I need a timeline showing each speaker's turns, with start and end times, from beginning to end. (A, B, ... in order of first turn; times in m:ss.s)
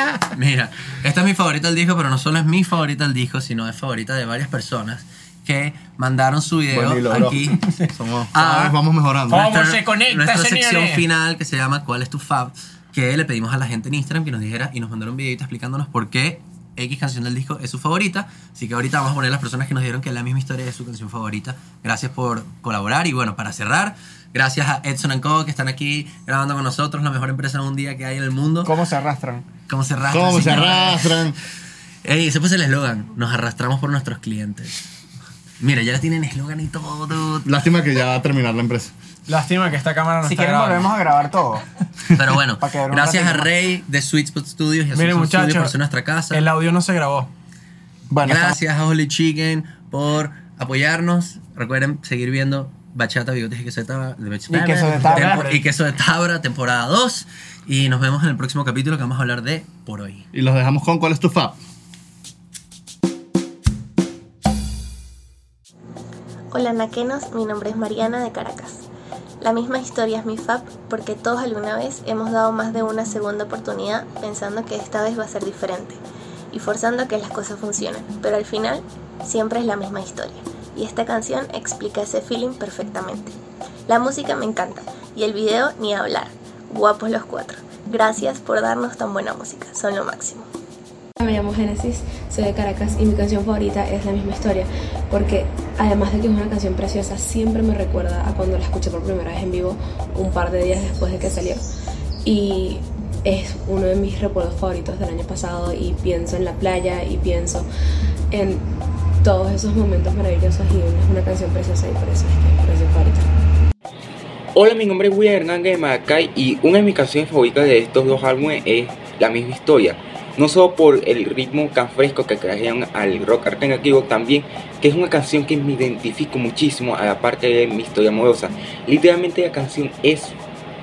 0:00.3-0:07.7 A
0:06.7-0:09.5 B
0:08.3-0:08.7 A
0:09.3-0:11.1 C
0:09.3-0:28.8 A
0:28.6-0:29.5 D
0:29.7-0:31.4 A
0:30.1-0:31.4 B
0:32.0-0:34.9 A
0:35.6-0:37.5 A
0:37.4-0:38.9 B
0:39.3-0:40.9 C
0:40.2-0:41.6 D
0:42.1-0:46.4 A
0:42.6-0:43.5 D
0:44.9-0:45.8 C
0:46.3-0:47.3 C
0:48.1-0:48.6 D
0:48.2-1:00.3 A
0:54.5-0:55.6 D
0:54.6-0:55.5 C
1:00.3-1:01.6 B
1:06.5-1:08.8 E
1:09.4-1:16.0 E
1:16.5-1:23.3 E
1:23.9-1:30.5 E
1:31.2-1:41.6 F
1:42.2-1:47.7 F
1:48.3-1:48.6 F
1:49.2-1:53.3 F
1:54.6-2:10.4 G